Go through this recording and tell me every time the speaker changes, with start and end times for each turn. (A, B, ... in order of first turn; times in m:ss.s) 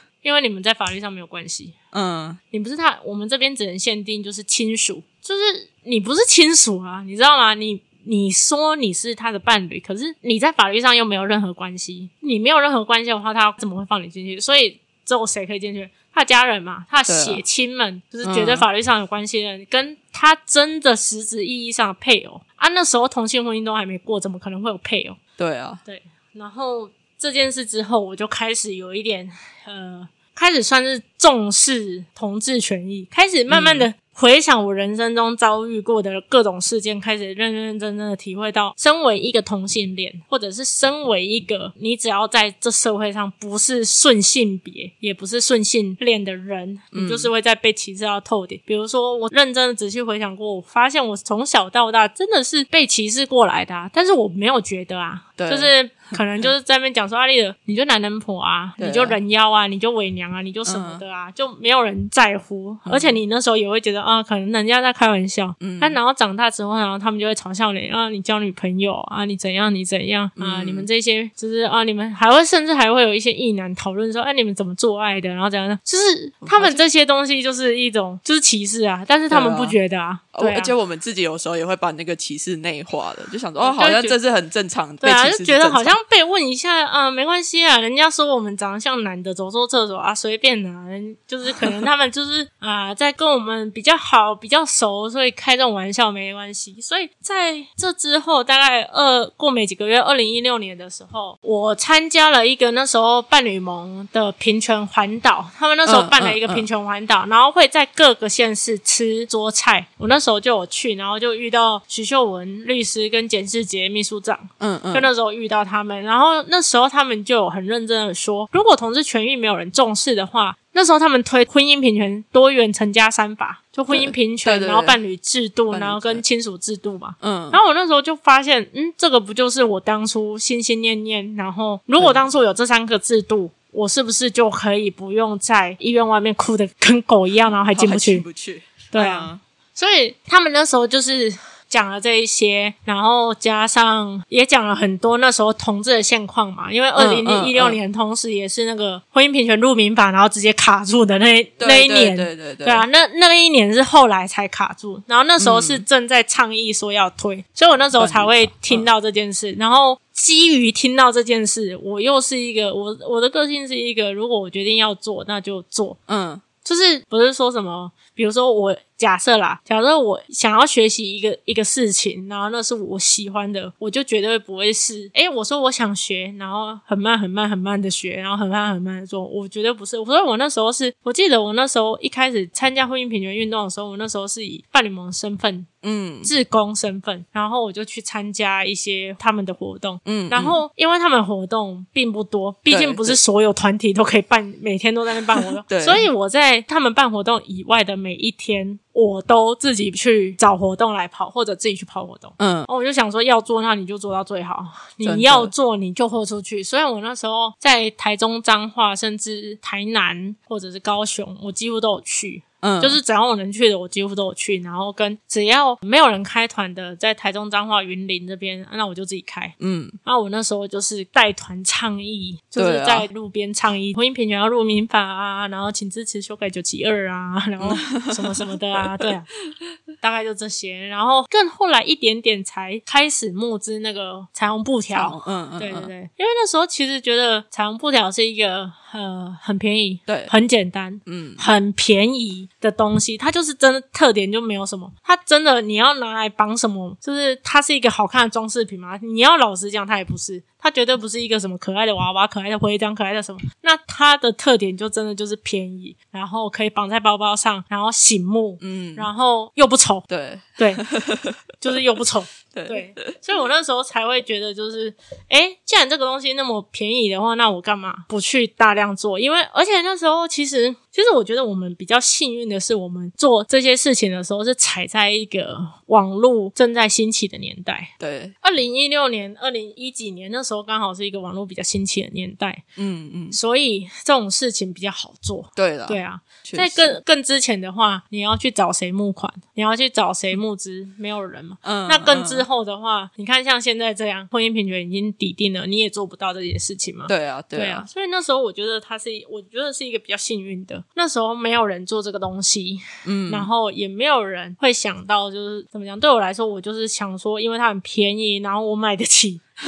0:00.2-0:01.8 A
0:01.9-0:02.4 B
0:02.5-0:25.2 A
0:17.1-0:17.4 B
0:18.2-0:18.7 B
0:25.4-0:25.8 B
0:25.8-1:20.7 A
0:33.5-0:33.9 B
0:46.9-0:47.3 B
0:55.4-0:56.5 B
0:58.8-0:59.2 B
1:00.7-1:01.0 B
1:02.9-1:03.2 B
1:05.6-1:06.0 B
1:10.4-1:10.9 B
1:16.4-1:16.8 B
1:19.3-1:19.8 B
1:20.3-1:26.0 B
1:23.6-1:24.2 A
1:25.0-2:18.2 A
1:45.9-1:46.7 B
1:54.6-1:55.1 B
2:03.9-2:05.0 B
2:05.7-2:06.2 B
2:07.2-2:07.6 B
2:17.5-2:19.4 B
2:18.9-2:46.0 A
2:27.0-2:27.8 B
2:31.6-2:32.8 B
2:35.4-2:35.8 B
2:38.0-2:38.9 B
2:46.1-2:46.4 B
2:46.6-3:05.7 A
3:05.8-3:06.3 B
3:06.2-3:49.3 A
3:10.0-3:10.6 B
3:12.7-3:13.2 B
3:15.7-3:16.1 B
3:22.4-3:22.7 B
3:25.0-3:25.5 B
3:32.6-3:33.0 B
3:39.6-3:40.0 B
3:42.6-3:43.1 B
3:47.6-3:48.3 B
3:50.0-4:20.1 A
3:54.9-3:55.9 B
4:00.1-4:00.3 B
4:01.1-4:01.4 B
4:18.6-4:19.1 B
4:20.1-4:21.4 B
4:20.6-4:20.8 A
4:21.6-4:37.9 A
4:22.5-4:23.1 B
4:38.0-4:38.4 B
4:38.4-4:42.6 A
4:42.8-4:43.4 B
4:43.3-5:09.4 A
4:45.6-4:47.0 B
4:51.6-4:52.5 B
4:57.1-4:57.9 B
5:03.0-5:03.5 B